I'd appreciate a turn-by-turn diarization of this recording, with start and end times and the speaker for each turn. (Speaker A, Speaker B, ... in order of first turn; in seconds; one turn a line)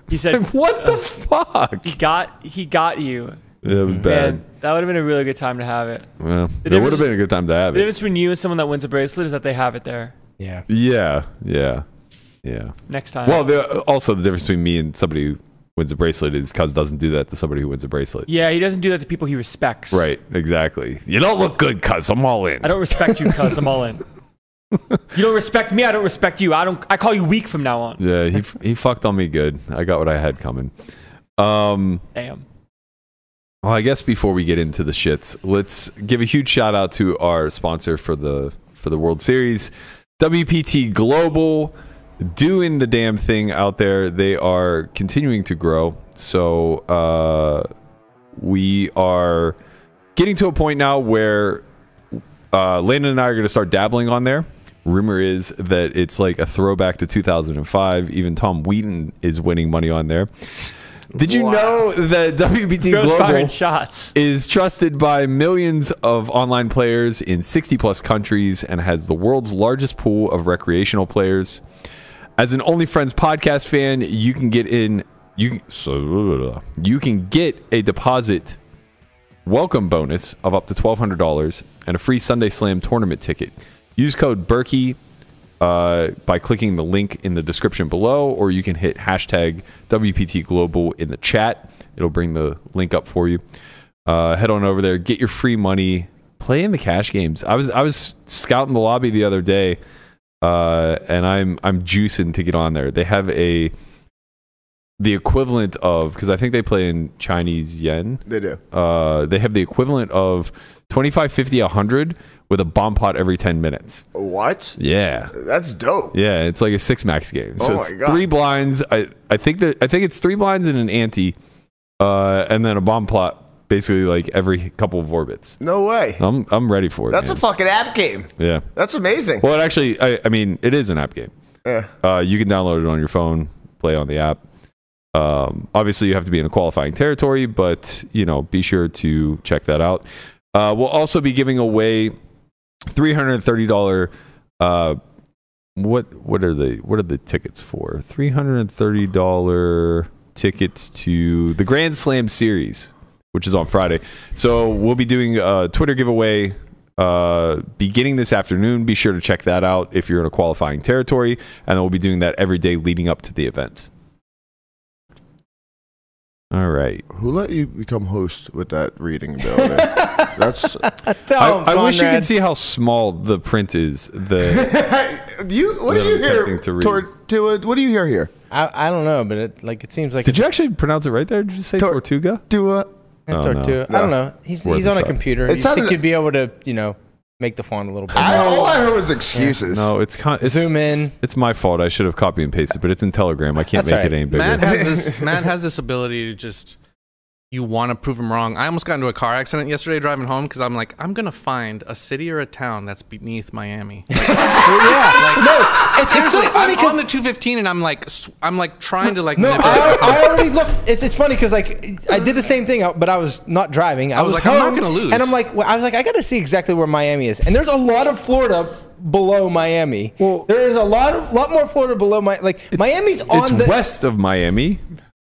Speaker A: 0.1-1.0
Speaker B: 0.3-2.0
Speaker A: 1.8-3.4
Speaker B: 3.6-4.4
Speaker C: 3.8-4.1
Speaker A: 4.0-6.1
Speaker B: 6.2-7.9
Speaker A: 6.6-7.1
Speaker A: 7.7-10.1
Speaker C: 10.4-10.7
Speaker B: 10.7-11.8
Speaker B: 12.4-12.7
Speaker A: 12.9-13.4
Speaker B: 13.2-18.3
Speaker A: 18.3-20.1
Speaker B: 19.9-22.7
Speaker A: 22.6-24.0
Speaker A: 25.1-28.0
Speaker B: 28.0-30.7
Speaker B: 31.4-32.0
Speaker A: 32.1-32.4
Speaker B: 33.6-47.7
Speaker B: 48.4-49.6
Speaker B: 50.2-51.6
Speaker B: 52.5-60.3
Speaker B: 61.1-63.5
Speaker D: 61.2-61.8
Speaker A: 62.9-64.1
Speaker B: 64.1-71.6
Speaker B: 72.4-78.6
Speaker B: 79.5-85.0
Speaker B: 85.6-93.4
Speaker B: 94.1-99.8
Speaker B: 100.4-103.7
Speaker B: 105.0-108.2
Speaker D: 108.3-108.6
Speaker B: 108.7-114.0
Speaker D: 114.2-114.8
Speaker B: 114.8-115.3
Speaker D: 115.3-116.2
Speaker B: 116.1-121.3
Speaker D: 117.6-118.2
Speaker B: 122.0-125.6
Speaker D: 125.6-126.2
Speaker B: 126.2-127.4
Speaker D: 127.1-129.4
Speaker B: 128.4-128.7
Speaker B: 129.4-131.3
Speaker B: 132.0-134.4
Speaker B: 135.1-142.2
Speaker B: 142.9-145.0
Speaker B: 145.8-163.9
Speaker B: 166.5-167.1
Speaker D: 167.1-170.9
Speaker C: 169.4-172.3
Speaker B: 171.4-174.8
Speaker D: 174.4-178.3
Speaker B: 175.9-177.1
Speaker C: 178.5-180.4
Speaker B: 180.2-182.4
Speaker D: 182.5-182.9
Speaker C: 183.3-189.6
Speaker B: 183.3-183.8
Speaker B: 184.7-185.2
Speaker D: 185.5-186.0
Speaker D: 188.1-189.9
Speaker B: 189.7-194.8
Speaker C: 190.4-191.2
Speaker C: 193.7-194.2
Speaker E: 194.3-196.8
Speaker D: 194.7-195.2
Speaker E: 197.5-210.4
Speaker C: 204.2-207.0
Speaker C: 209.3-223.8
Speaker E: 214.2-215.3
Speaker B: 220.2-220.5
Speaker B: 222.7-224.8